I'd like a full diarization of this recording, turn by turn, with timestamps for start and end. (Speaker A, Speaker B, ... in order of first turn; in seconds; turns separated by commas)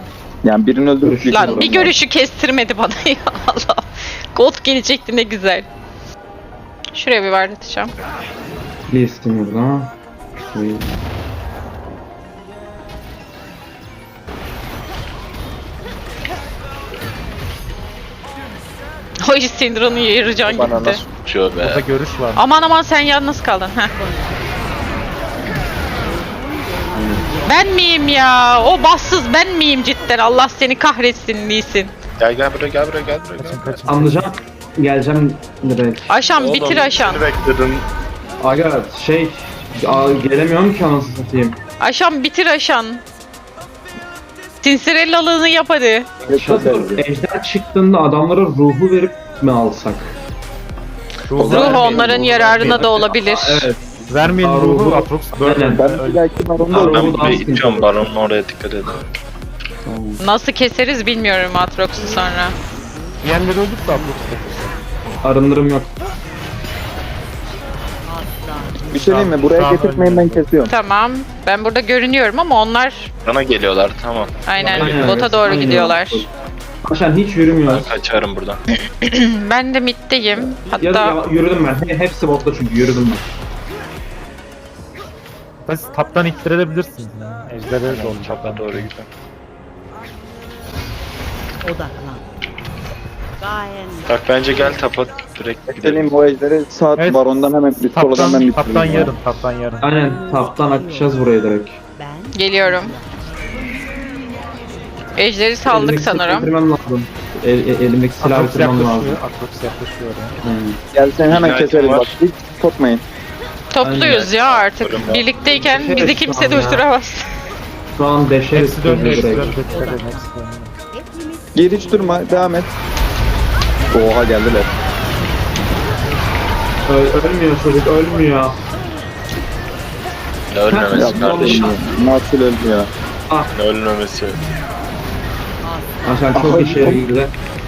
Speaker A: 0.4-1.9, Speaker B: 1.0-1.9, Speaker C: 1.3-5.7, Speaker C: 7.0-7.9, Speaker B: 8.9-9.9, Speaker B: 10.5-11.0, Speaker C: 19.2-21.0, Speaker D: 20.5-21.9, Speaker E: 21.6-22.4, Speaker C: 22.4-23.9, Speaker B: 26.9-27.3, Speaker C: 27.5-31.9, Speaker D: 32.2-33.9, Speaker E: 33.4-34.2, Speaker B: 33.9-36.1, Speaker C: 36.1-37.2, Speaker D: 36.4-37.9, Speaker B: 38.4-41.6, Speaker C: 41.8-43.0, Speaker C: 44.6-46.1, Speaker B: 46.2-50.2, Speaker A: 46.3-47.0, Speaker E: 51.3-52.3, Speaker B: 51.4-55.9, Speaker C: 51.4-53.7, Speaker E: 54.1-56.2, Speaker A: 55.7-57.4, Speaker B: 56.7-58.1, Speaker D: 56.7-59.1, Speaker B: 59.9-60.2, Speaker C: 60.2-62.5, Speaker E: 63.2-64.8, Speaker B: 65.2-65.9, Speaker A: 68.9-70.7, Speaker E: 69.0-70.7, Speaker C: 70.7-73.1, Speaker D: 73.3-75.0, Speaker C: 74.5-76.3, Speaker B: 74.6-76.3, Speaker E: 74.6-75.0, Speaker B: 76.8-77.9, Speaker D: 77.7-78.6, Speaker C: 78.9-81.2, Speaker B: 80.7-83.2, Speaker E: 85.6-88.9, Speaker D: 87.9-89.1, Speaker D: 94.1-96.1, Speaker A: 95.7-99.1, Speaker E: 97.0-97.2, Speaker E: 97.9-99.9, Speaker B: 99.8-101.8, Speaker C: 102.3-103.0, Speaker C: 105.2-106.5, Speaker B: 105.7-109.2, Speaker E: 108.2-110.4, Speaker B: 110.4-110.8, Speaker A: 110.9-113.0, Speaker D: 111.3-112.1, Speaker C: 113.7-117.3, Speaker B: 113.8-114.3, Speaker D: 114.3-115.3, Speaker B: 115.5-116.9, Speaker B: 118.0-119.6, Speaker E: 118.5-120.7, Speaker A: 121.5-122.7, Speaker A: 123.9-124.7, Speaker B: 126.9-128.6, Speaker D: 130.5-131.8, Speaker B: 130.7-131.8, Speaker A: 130.9-132.9, Speaker D: 133.5-134.4, Speaker B: 136.0-137.3, Speaker A: 136.3-137.0